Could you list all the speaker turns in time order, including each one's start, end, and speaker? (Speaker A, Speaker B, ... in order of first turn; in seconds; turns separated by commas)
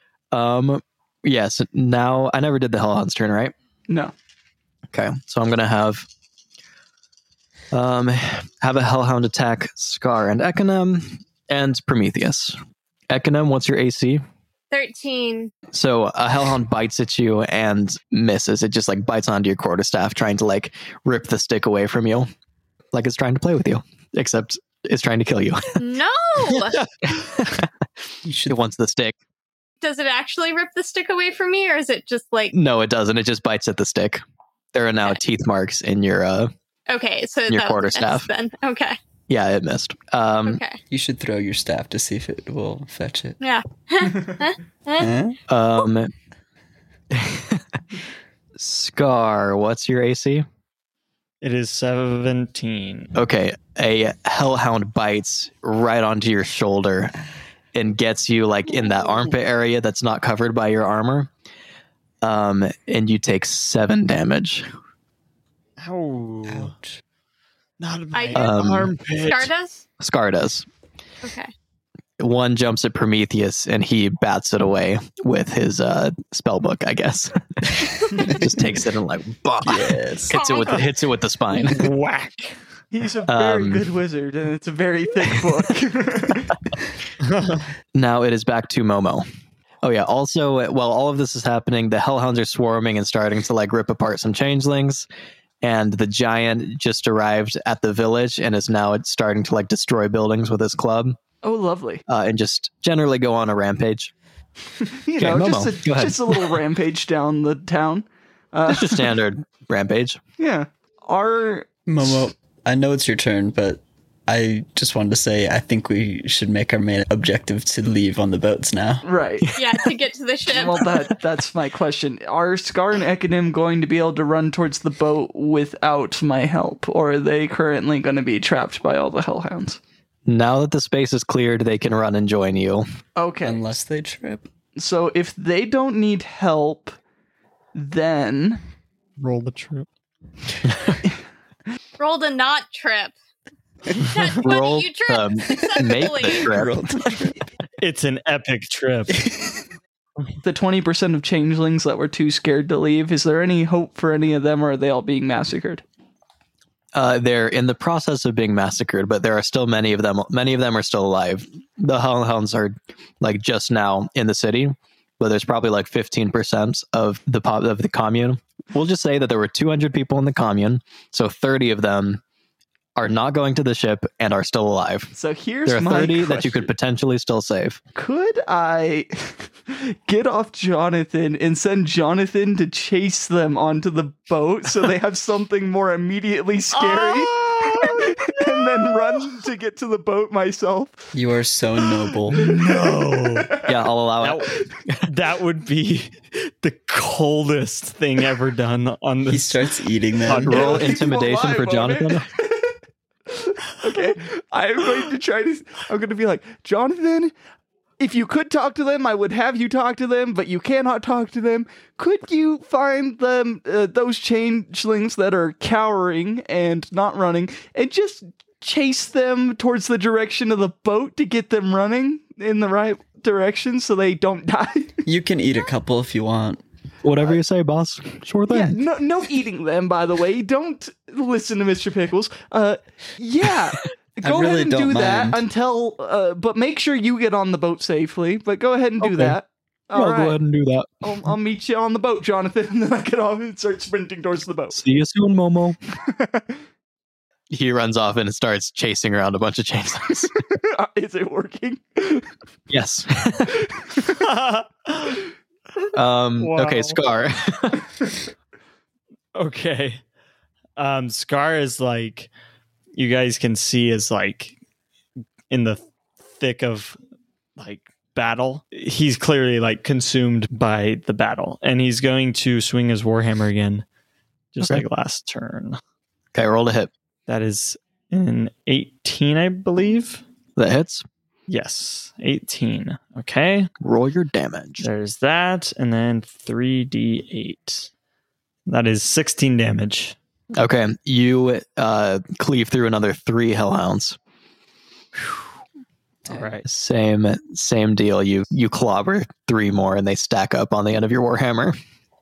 Speaker A: 0.3-3.5, Speaker A: 4.9-6.1, Speaker A: 7.7-12.6, Speaker A: 13.1-14.2, Speaker B: 14.7-15.5, Speaker A: 15.7-22.3, Speaker A: 22.9-25.8, Speaker B: 25.8-26.8, Speaker A: 27.0-27.7, Speaker C: 28.2-28.6, Speaker A: 28.5-29.2, Speaker B: 29.8-32.5, Speaker A: 32.5-34.2, Speaker A: 34.7-36.5, Speaker B: 36.9-39.0, Speaker A: 37.5-38.3, Speaker A: 39.3-40.6, Speaker B: 40.5-40.8, Speaker C: 40.9-43.4, Speaker B: 43.4-45.1, Speaker C: 45.0-45.4, Speaker A: 45.5-46.1, Speaker A: 47.1-47.6, Speaker A: 48.6-50.4, Speaker D: 51.4-53.1, Speaker A: 53.1-57.1, Speaker A: 57.7-61.3, Speaker A: 62.2-64.7, Speaker D: 65.8-66.7, Speaker C: 66.5-67.0, Speaker D: 67.8-69.5, Speaker B: 68.1-69.8, Speaker A: 68.3-68.9, Speaker A: 70.0-70.7, Speaker B: 71.2-71.5, Speaker A: 72.2-77.3, Speaker A: 78.1-81.9, Speaker C: 79.6-80.3, Speaker B: 80.3-80.9, Speaker D: 81.7-82.6, Speaker E: 82.9-86.6, Speaker A: 83.3-83.9, Speaker D: 87.2-87.7, Speaker A: 87.9-89.2, Speaker A: 89.8-95.1, Speaker A: 95.6-101.2, Speaker E: 101.4-102.0, Speaker A: 102.1-104.1, Speaker E: 104.8-109.1, Speaker A: 105.2-106.5, Speaker A: 108.7-110.2, Speaker E: 110.4-112.2, Speaker C: 111.9-119.0, Speaker E: 119.0-119.5, Speaker B: 119.5-120.9, Speaker E: 120.5-129.8, Speaker A: 130.3-132.8, Speaker E: 133.2-133.6, Speaker C: 133.4-134.4, Speaker E: 134.8-136.9, Speaker E: 137.7-138.6, Speaker D: 139.2-139.9, Speaker B: 142.0-143.1, Speaker B: 143.9-146.5, Speaker A: 144.3-146.9, Speaker C: 146.2-147.4, Speaker D: 147.8-149.2, Speaker E: 150.4-155.8, Speaker A: 156.9-172.2, Speaker A: 172.9-175.1, Speaker E: 175.1-176.7, Speaker A: 175.7-177.8, Speaker E: 177.9-191.0, Speaker D: 186.7-188.5, Speaker C: 191.1-192.4, Speaker E: 191.8-193.8, Speaker D: 192.3-193.5, Speaker A: 193.7-195.1, Speaker D: 194.2-194.5, Speaker D: 195.0-199.7, Speaker C: 199.3-200.6, Speaker D: 200.2-200.7, Speaker E: 200.3-202.7, Speaker A: 200.4-202.2, Speaker E: 203.3-207.3, Speaker E: 208.0-225.0, Speaker C: 225.1-226.6, Speaker A: 227.0-228.8, Speaker E: 228.5-240.4, Speaker C: 234.2-235.4, Speaker A: 239.0-239.4, Speaker A: 239.9-241.2, Speaker E: 241.0-244.8, Speaker A: 244.7-245.8, Speaker E: 246.1-246.4, Speaker A: 247.5-250.3, Speaker E: 250.5-252.3, Speaker A: 252.7-253.6, Speaker E: 253.6-254.1, Speaker D: 254.2-255.2, Speaker A: 255.9-257.9, Speaker D: 256.4-257.0, Speaker D: 259.3-260.0, Speaker D: 260.8-262.3, Speaker D: 262.9-264.6, Speaker D: 265.5-265.8, Speaker D: 266.3-266.9, Speaker D: 267.6-273.8, Speaker D: 274.5-275.8, Speaker A: 274.6-274.8, Speaker A: 276.3-276.9, Speaker D: 277.3-280.2, Speaker A: 280.6-281.0, Speaker D: 281.5-283.7, Speaker A: 283.8-284.9, Speaker D: 284.8-287.9, Speaker D: 288.7-290.1, Speaker A: 290.6-294.2, Speaker C: 296.2-296.6, Speaker D: 296.3-296.6, Speaker A: 296.6-301.8